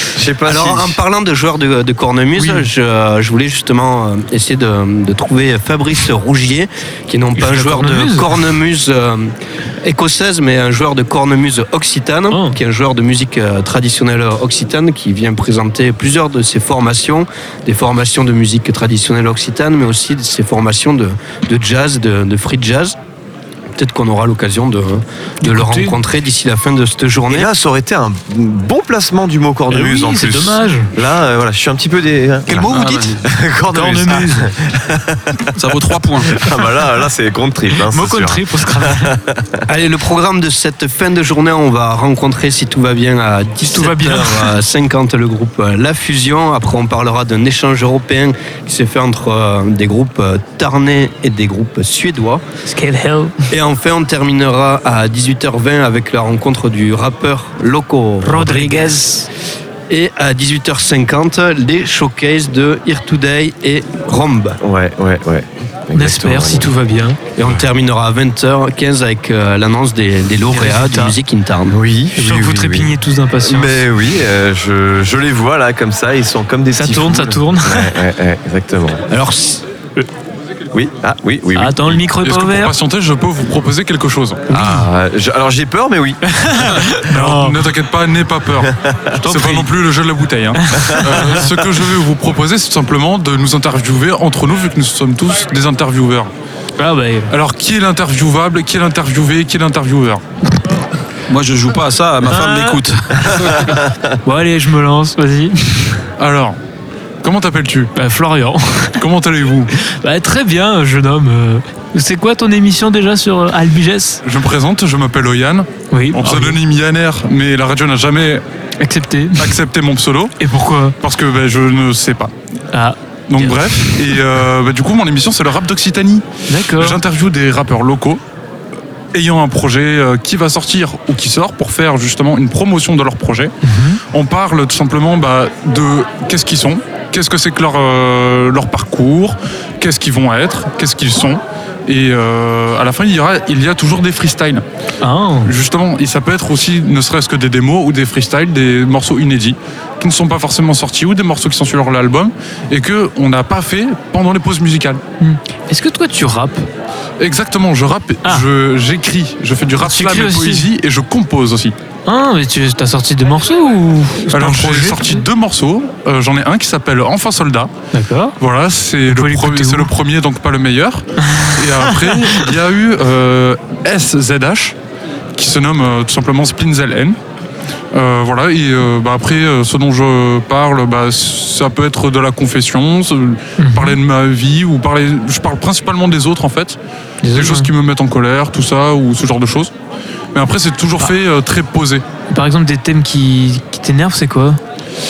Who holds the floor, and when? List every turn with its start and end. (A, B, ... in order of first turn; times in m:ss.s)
0:00.1-0:01.0 A
0:00.5-0:23.0 B
0:02.4-0:02.7 C
0:07.4-0:08.4 C
0:12.3-0:12.6 C
0:23.8-0:27.5 B
0:25.4-0:26.0 C
0:27.3-0:35.5 A
0:29.7-0:30.9 C
0:32.6-0:33.2 D
0:33.7-0:34.6 C
0:35.6-0:36.4 D
0:36.3-0:39.6 A
0:37.8-0:39.2 C
0:39.7-0:52.4 B
0:43.6-0:44.6 C
0:52.6-0:53.4 C
0:53.5-0:59.0 B
0:58.2-0:59.3 C
0:59.9-1:04.6 B
1:04.6-1:06.7 A
1:05.9-1:07.2 C
1:07.4-1:11.8 B
1:10.5-1:11.2 C
1:11.7-1:19.0 A
1:12.1-1:13.9 C
1:16.7-1:18.0 C
1:19.1-1:19.6 B
1:20.7-1:22.0 A
1:21.6-1:22.8 C
1:22.2-1:24.5 E
1:24.5-1:26.2 A
1:24.5-1:24.9 C
1:26.3-1:27.7 C
1:27.1-1:28.7 E
1:28.6-1:29.0 A
1:29.1-1:29.7 C
1:29.2-1:36.3 E
1:30.5-1:31.4 C
1:30.8-1:31.6 A
1:36.8-1:37.4 C
1:37.3-1:40.2 E
1:41.3-1:43.8 D
1:42.2-1:42.8 C
1:44.2-1:46.1 C
1:46.2-1:46.6 E
1:47.2-1:47.9 E
1:48.0-1:49.1 C
1:49.0-1:49.7 E
1:49.7-1:54.2 C
1:54.2-1:58.4 E
1:55.9-1:56.6 C
1:58.8-1:59.6 C
1:59.4-2:00.4 E
2:00.4-2:01.0 C
2:01.0-2:02.3 E
2:02.7-2:04.2 C
2:03.3-2:08.2 E
2:06.5-2:07.0 C
2:09.1-2:13.5 E
2:13.6-2:14.0 C
2:14.1-2:24.6 E
2:25.0-2:25.6 C
2:25.4-2:35.0 E
2:35.2-2:36.7 C
2:37.2-2:41.8 E
2:39.8-2:40.7 C
2:42.1-2:45.3 C
2:44.3-2:47.7 E
2:47.9-2:48.4 C
2:48.4-2:54.8 E
2:49.0-2:50.0 C
2:51.2-2:52.6 C
2:55.4-2:57.2 E
2:57.9-3:06.8 E
3:03.6-3:04.0 C
3:07.2-3:07.7 C
3:07.3-3:09.7 E
3:10.4-3:12.1 E
3:12.3-3:14.6 C